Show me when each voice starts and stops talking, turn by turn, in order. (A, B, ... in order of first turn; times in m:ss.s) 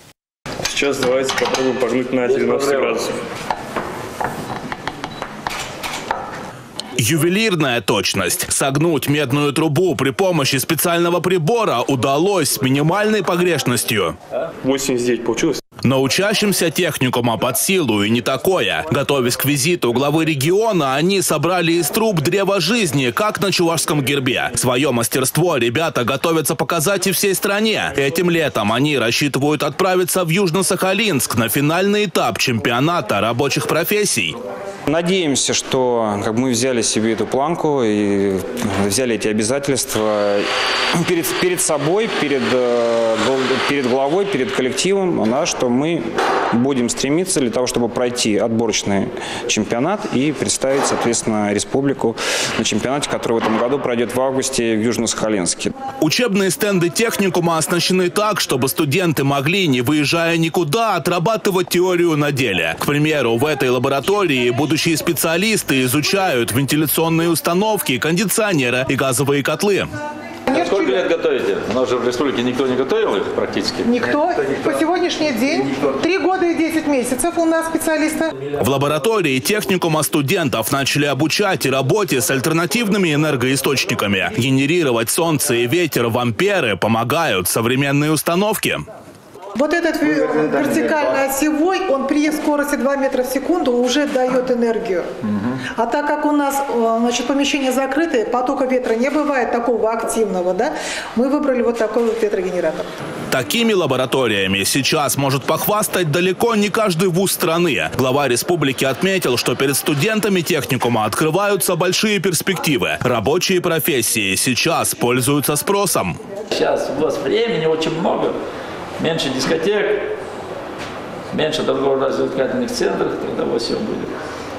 0:00.6-0:03.2 A
0:02.2-0:03.0 B
0:07.0-0:14.1 C
0:14.6-0:15.6 A
0:15.8-0:34.3 C
0:34.9-0:40.5 D
0:41.0-0:55.8 D
0:56.0-1:09.9 C
1:10.5-1:11.1 E
1:10.5-1:14.0 B
1:13.8-1:18.3 E
1:18.6-1:28.8 C
1:29.5-1:35.1 E
1:35.8-1:42.9 E
1:43.3-1:56.2 C
1:56.5-1:58.4 B
1:59.0-2:00.1 B
2:01.3-2:04.1 B